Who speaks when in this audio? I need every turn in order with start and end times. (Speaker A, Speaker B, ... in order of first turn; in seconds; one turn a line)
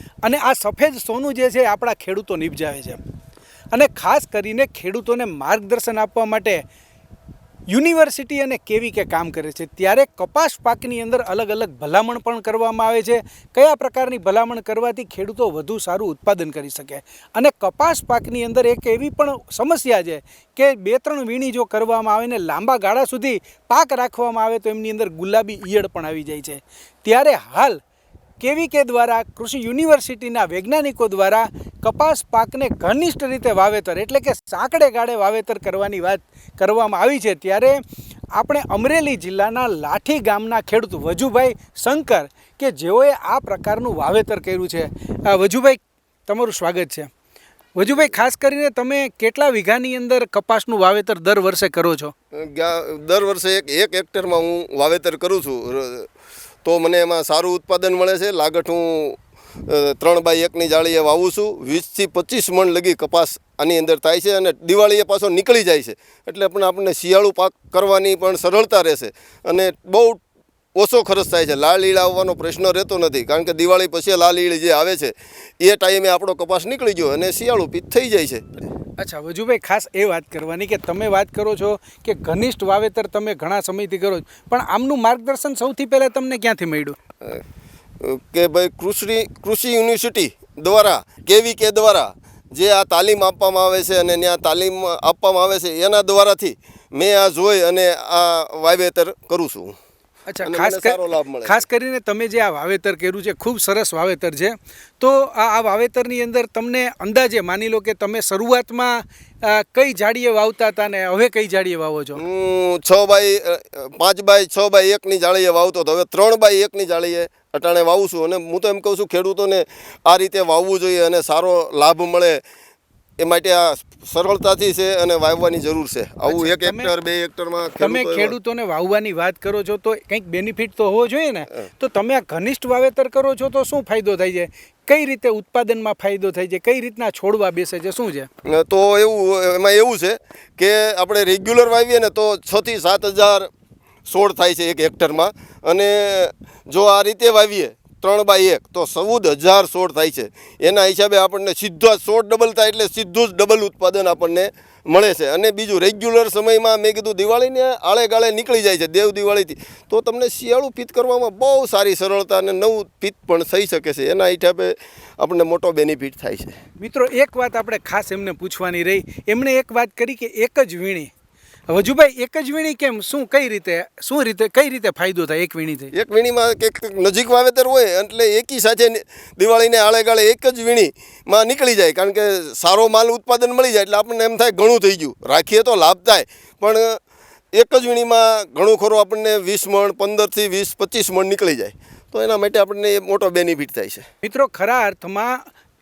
Speaker A: 0.2-3.0
Speaker A: 3.7-6.6
Speaker A: 7.7-27.8
Speaker A: 28.4-37.8
Speaker A: 38.3-47.1
Speaker A: 47.8-52.1
Speaker B: 52.3-56.1
Speaker B: 56.6-70.2
Speaker B: 70.8-78.7
Speaker A: 79.0-87.0
Speaker B: 88.0-99.8
Speaker A: 100.3-112.2
Speaker B: 100.4-101.6
Speaker B: 112.2-122.4
Speaker B: 123.2-128.4
Speaker A: 126.3-126.9
Speaker A: 127.8-138.3
Speaker B: 138.4-143.5
Speaker B: 144.1-166.6
Speaker A: 166.8-171.1
Speaker A: 171.7-175.9
Speaker B: 175.9-187.0
Speaker B: 187.5-194.1
Speaker A: 194.2-195.4